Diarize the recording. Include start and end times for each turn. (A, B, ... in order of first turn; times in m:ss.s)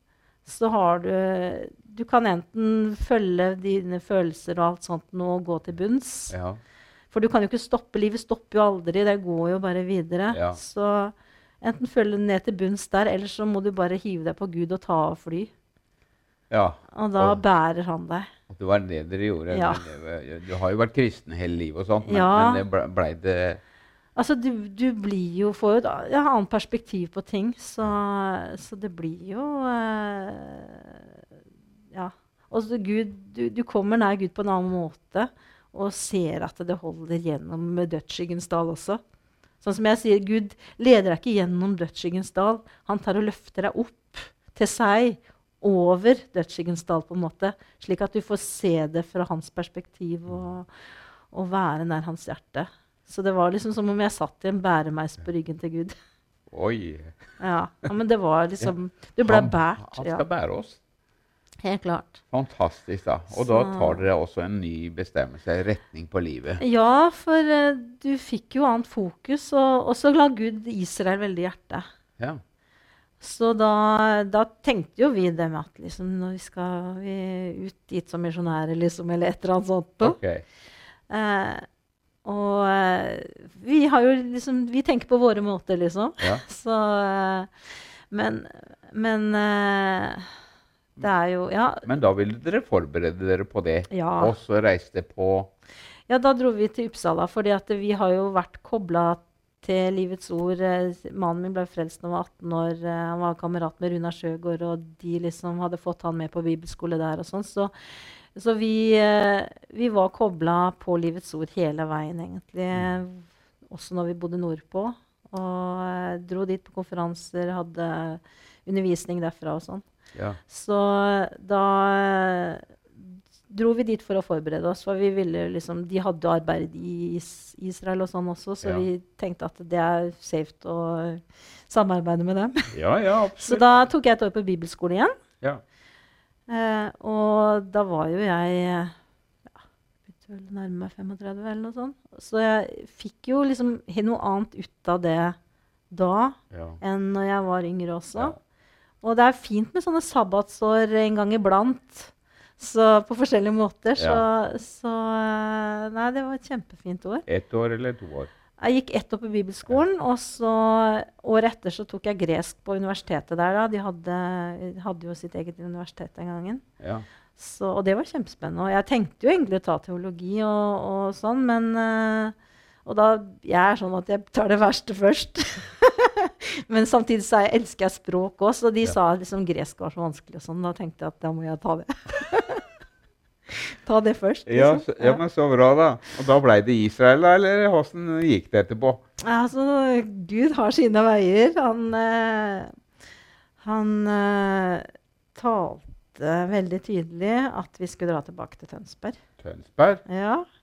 0:00.4-0:06.3 A
0:06.3-0:06.6 B
0:07.1-0:15.5 A
0:10.3-0:10.6 B
0:16.5-0:17.4 B
0:16.9-0:18.3 A
0:18.5-0:23.6 B
0:19.5-0:19.8 A
0:22.0-0:22.6 A
0:24.2-0:31.1 A
0:31.9-0:39.0 A
0:39.6-0:50.7 A
0:51.3-0:55.9 A
0:56.5-0:57.2 B
0:57.4-1:00.2 A
0:59.2-1:00.8 B
1:01.6-1:02.2 A
1:02.3-1:06.6 B
1:03.3-1:04.0 A
1:06.6-1:11.8 A
1:13.2-1:20.2 A
1:20.0-1:20.4 B
1:21.1-1:21.6 A
1:22.2-1:27.5 A
1:28.1-1:30.3 A
1:31.0-1:31.9 A
1:31.8-1:35.5 B
1:33.9-1:34.3 A
1:36.1-1:47.7 A
1:48.3-1:59.8 A
2:00.1-2:00.4 B
2:00.5-2:02.6 A
2:03.5-2:12.7 A
2:12.7-2:13.7 B
2:13.4-2:15.1 A
2:16.5-2:18.9 A
2:20.1-2:25.4 A
2:25.9-2:28.4 A
2:26.5-2:26.8 B
2:29.0-2:37.2 A
2:34.0-2:34.2 B
2:37.3-2:38.3 B
2:38.6-2:46.6 A
2:46.8-2:47.0 B
2:47.4-3:02.6 A
3:03.5-3:05.2 A
3:04.5-3:09.0 B
3:09.2-3:12.7 A
3:13.6-3:19.2 A
3:19.4-3:20.0 B
3:20.0-3:20.4 A